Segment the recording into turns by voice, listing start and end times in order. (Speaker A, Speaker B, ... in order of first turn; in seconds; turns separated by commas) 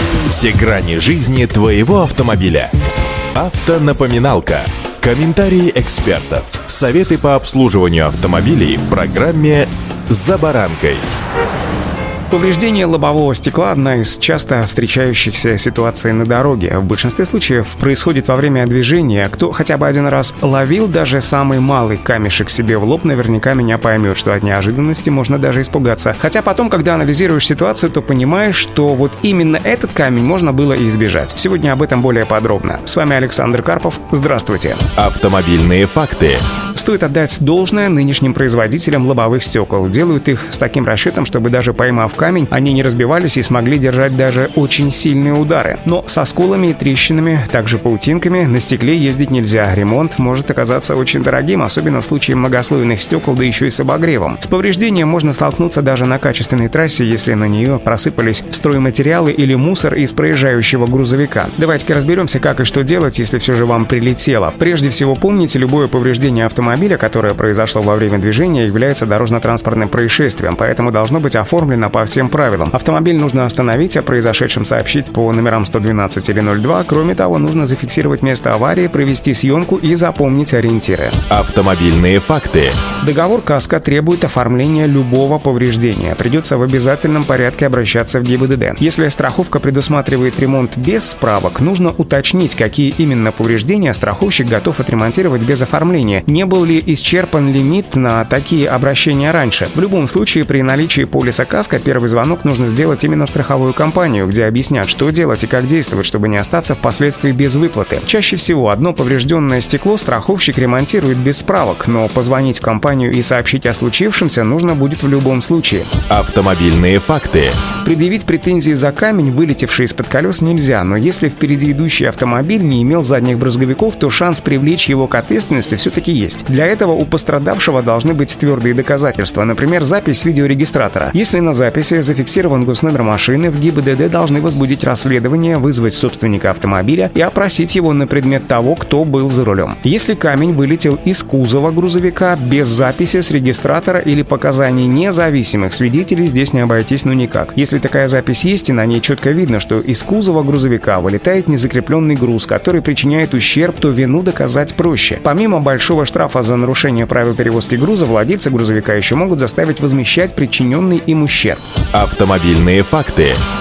Speaker A: 0.2-2.7, Speaker A: 3.3-11.1, Speaker B: 12.3-34.9, Speaker A: 35.0-36.4, Speaker B: 36.7-81.2, Speaker A: 81.3-82.8, Speaker B: 83.0-115.9, Speaker A: 116.1-117.6, Speaker B: 117.8-161.6, Speaker A: 161.9-163.4